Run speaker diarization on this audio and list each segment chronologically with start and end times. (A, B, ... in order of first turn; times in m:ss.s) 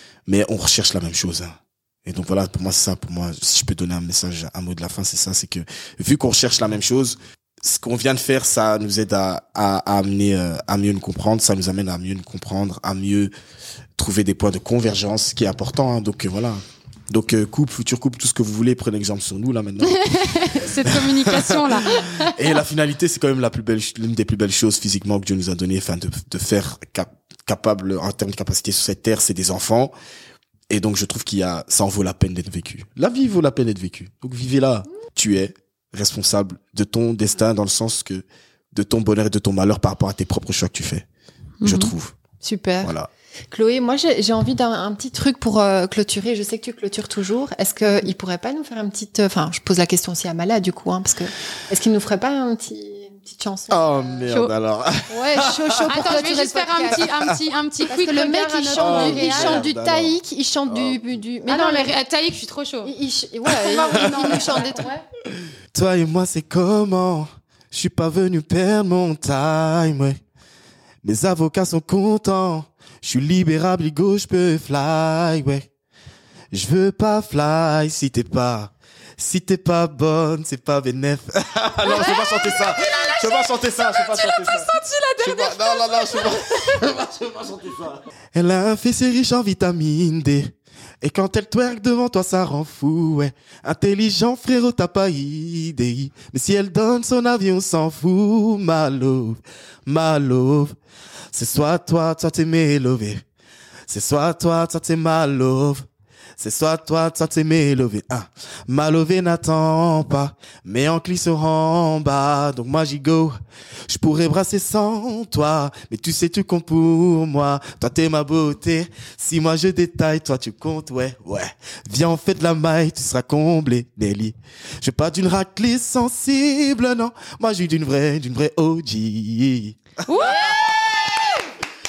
0:00.3-0:13.3 A
0:14.0-0:29.9 A
0:19.8-0:22.4 B
0:30.7-0:41.0 A
0:41.6-0:41.9 B
0:41.6-0:42.2 A
0:42.4-0:42.9 C
0:42.8-0:43.1 A
0:43.5-0:54.2 C
0:53.7-0:56.1 A
0:55.1-0:57.1 C
0:55.9-0:59.7 B
0:57.9-1:01.9 C
0:58.8-1:01.0 A
1:01.4-1:02.9 B
1:02.8-1:04.9 C
1:03.5-1:05.0 B
1:04.0-1:04.2 A
1:05.3-1:10.2 A
1:11.0-1:15.7 A
1:16.5-1:40.8 A
1:21.8-1:26.9 B
1:41.3-1:43.2 A
1:43.9-1:45.9 A
1:46.4-1:53.4 A
1:53.9-2:11.3 A
2:10.0-2:11.3 B